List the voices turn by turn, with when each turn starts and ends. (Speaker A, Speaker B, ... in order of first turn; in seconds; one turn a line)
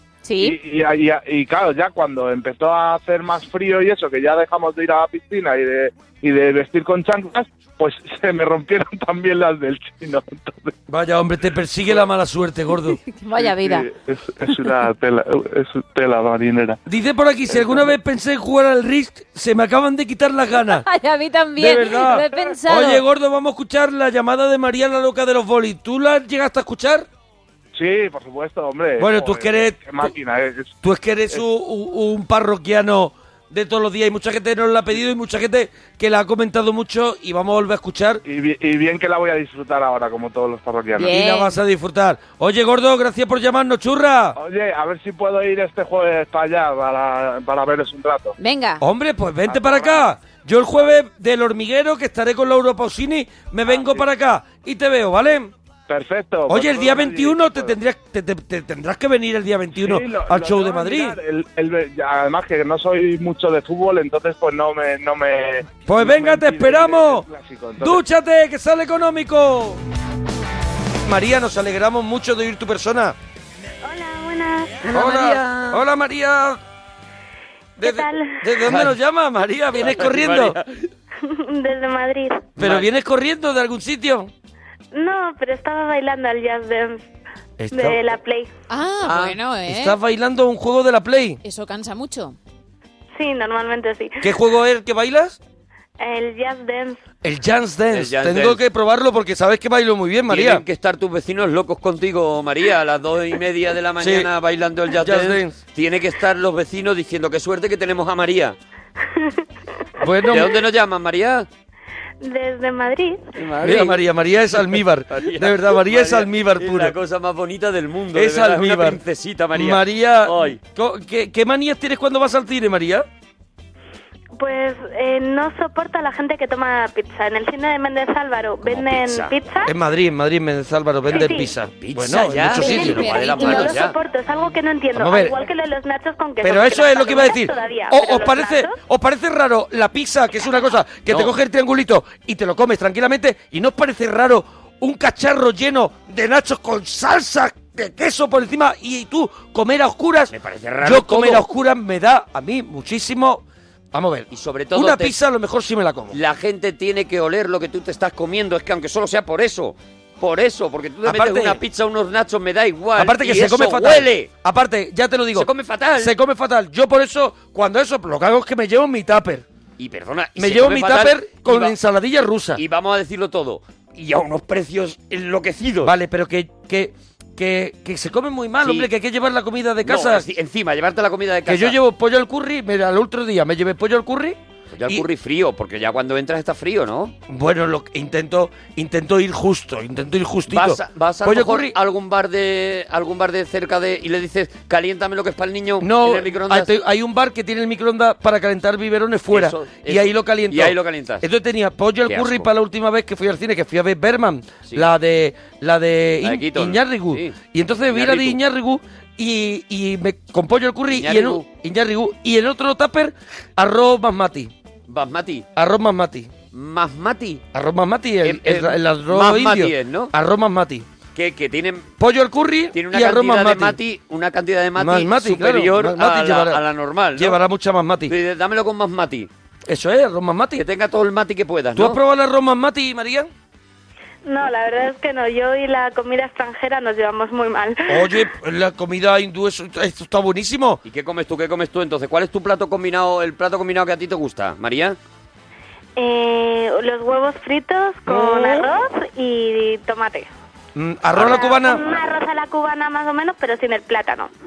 Speaker A: 0.2-0.6
Speaker B: 0.4-10.8
Speaker C: 10.9-13.0
Speaker A: 13.0-13.9
Speaker B: 13.4-16.8
Speaker C: 16.9-20.9
Speaker B: 17.5-17.9
Speaker A: 20.6-23.0
Speaker C: 21.6-27.1
Speaker B: 27.8-30.7
Speaker C: 29.0-30.1
Speaker C: 30.8-38.2
Speaker B: 38.2-41.1
Speaker A: 41.0-41.6
Speaker C: 41.0-44.4
Speaker B: 44.4-48.4
Speaker A: 48.4-48.8
Speaker C: 48.8-55.5
Speaker B: 49.5-50.1
Speaker B: 53.7-54.0
Speaker B: 55.9-57.8
Speaker C: 56.5-61.2
Speaker B: 59.8-68.0
Speaker C: 65.9-67.2
Speaker C: 67.8-69.8
Speaker C: 71.1-73.2
Speaker D: 73.8-74.9
Speaker E: 74.8-75.8
Speaker C: 74.9-76.6
Speaker D: 77.8-78.5
Speaker C: 77.8-80.6
Speaker E: 78.7-79.0
Speaker E: 79.8-80.6
Speaker D: 81.2-82.6
Speaker E: 82.6-82.9
Speaker C: 82.6-84.3
Speaker D: 84.9-87.1
Speaker C: 87.6-88.0
Speaker D: 87.7-88.5
Speaker A: 88.7-90.0
Speaker E: 89.0-89.4
Speaker C: 89.7-91.4
Speaker A: 91.4-92.4
Speaker D: 93.2-94.3
Speaker C: 94.2-95.4
Speaker D: 96.0-97.0
Speaker C: 97.2-100.6
Speaker E: 97.9-98.6
Speaker E: 100.3-108.6
Speaker C: 104.0-104.3
Speaker C: 105.0-105.6
Speaker C: 110.0-110.6
Speaker E: 110.3-111.5
Speaker D: 112.2-113.3
Speaker E: 113.4-120.6
Speaker C: 113.6-117.0
Speaker C: 118.1-119.0
Speaker C: 119.5-123.1
Speaker D: 124.4-129.7
Speaker E: 128.6-129.3
Speaker C: 129.7-133.2
Speaker D: 131.1-131.6
Speaker E: 131.1-134.0
Speaker A: 132.6-133.7
Speaker D: 132.6-138.8
Speaker C: 134.9-135.4
Speaker C: 136.4-156.2
Speaker E: 141.1-141.3
Speaker E: 150.3-151.4
Speaker E: 154.3-155.2
Speaker E: 156.1-164.3
Speaker C: 161.0-161.6
Speaker C: 163.0-169.4
Speaker E: 165.3-166.1
Speaker E: 169.8-171.8
Speaker C: 170.4-172.6
Speaker E: 172.6-175.9
Speaker C: 175.8-180.3
Speaker E: 178.6-178.9
Speaker E: 179.8-181.8
Speaker C: 181.5-184.4
Speaker E: 184.7-187.1
Speaker C: 187.3-191.8
Speaker E: 190.5-196.7
Speaker C: 195.8-214.5
Speaker E: 199.3-201.2
Speaker E: 202.1-202.5
Speaker E: 206.2-208.4
Speaker E: 210.9-211.5
Speaker E: 214.9-215.5
Speaker C: 215.6-216.3
Speaker E: 216.5-217.4
Speaker C: 217.5-220.9
Speaker E: 218.2-220.1
Speaker E: 221.2-221.9
Speaker C: 222.0-223.8
Speaker E: 222.7-227.4
Speaker C: 224.8-226.6
Speaker C: 227.2-228.1
Speaker E: 228.1-229.3
Speaker C: 229.7-230.6
Speaker E: 230.6-232.0
Speaker C: 231.8-233.3
Speaker D: 234.2-238.2
Speaker C: 237.9-240.8
Speaker E: 240.8-245.0
Speaker D: 246.0-250.3
Speaker C: 248.1-248.7
Speaker C: 250.8-251.8
Speaker E: 251.1-252.0
Speaker D: 251.2-254.3